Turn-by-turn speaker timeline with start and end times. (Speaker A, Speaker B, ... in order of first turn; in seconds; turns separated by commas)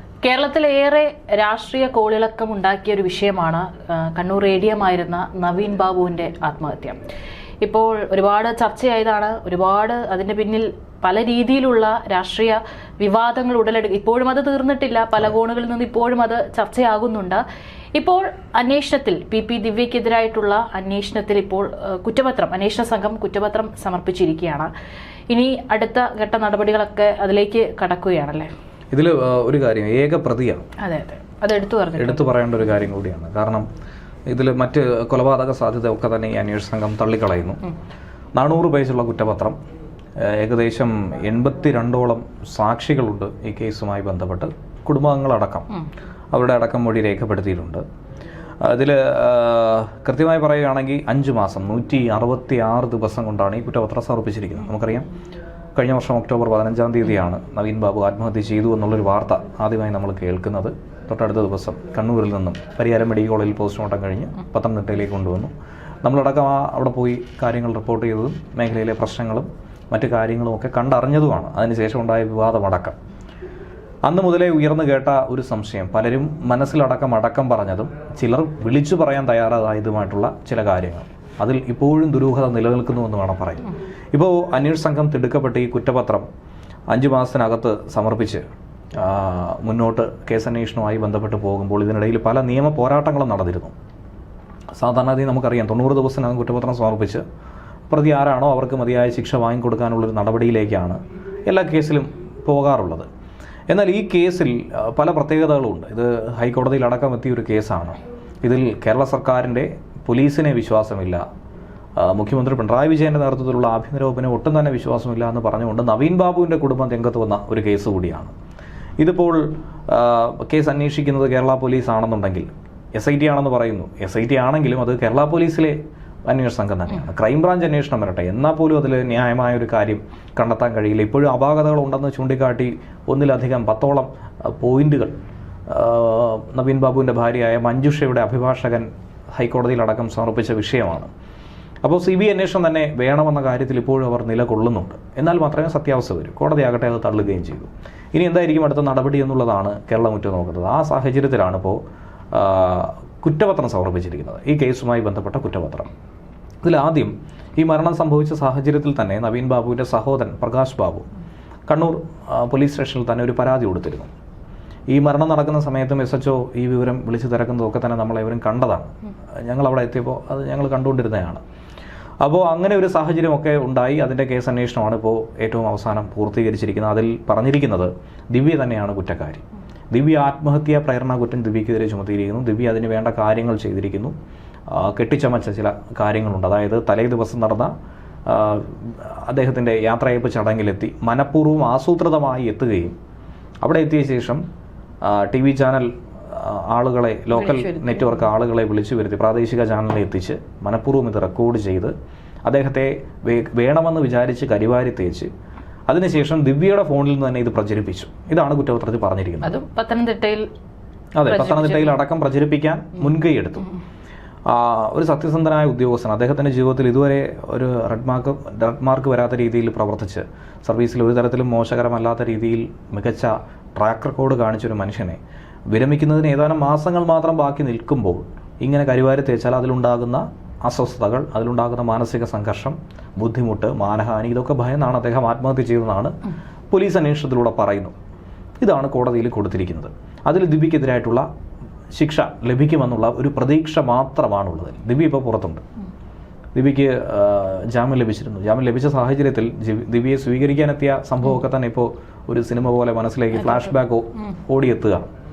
Speaker A: 0.2-7.0, Speaker A: 7.6-17.4, Speaker A: 18.0-24.7, Speaker A: 25.3-28.5, Speaker B: 28.9-30.7, Speaker A: 30.8-32.2, Speaker B: 32.0-33.7, Speaker B: 34.3-37.6, Speaker B: 38.4-39.6, Speaker B: 40.2-45.7, Speaker B: 46.3-47.8, Speaker B: 48.6-55.1, Speaker B: 55.8-65.5, Speaker B: 66.0-73.0, Speaker B: 74.0-86.3, Speaker B: 86.9-88.4, Speaker B: 89.0-93.7, Speaker B: 94.8-97.2, Speaker B: 97.9-103.1, Speaker B: 103.7-111.2, Speaker B: 112.0-118.3, Speaker B: 119.0-125.8, Speaker B: 126.3-135.2, Speaker B: 135.7-141.1, Speaker B: 141.8-151.8, Speaker B: 152.3-155.9, Speaker B: 156.6-161.1, Speaker B: 161.7-164.1, Speaker B: 164.9-168.9, Speaker B: 169.4-171.4, Speaker B: 172.2-184.1, Speaker B: 184.7-187.7, Speaker B: 188.3-192.9, Speaker B: 193.6-194.4, Speaker B: 195.0-201.9, Speaker A: 197.5-198.0, Speaker B: 202.5-205.3, Speaker B: 205.9-209.6, Speaker A: 209.4-210.5, Speaker B: 211.2-213.7, Speaker A: 211.2-212.0, Speaker B: 214.5-225.2, Speaker B: 225.7-236.1, Speaker B: 236.7-237.9, Speaker B: 238.6-241.3, Speaker B: 241.9-245.6, Speaker B: 246.6-255.1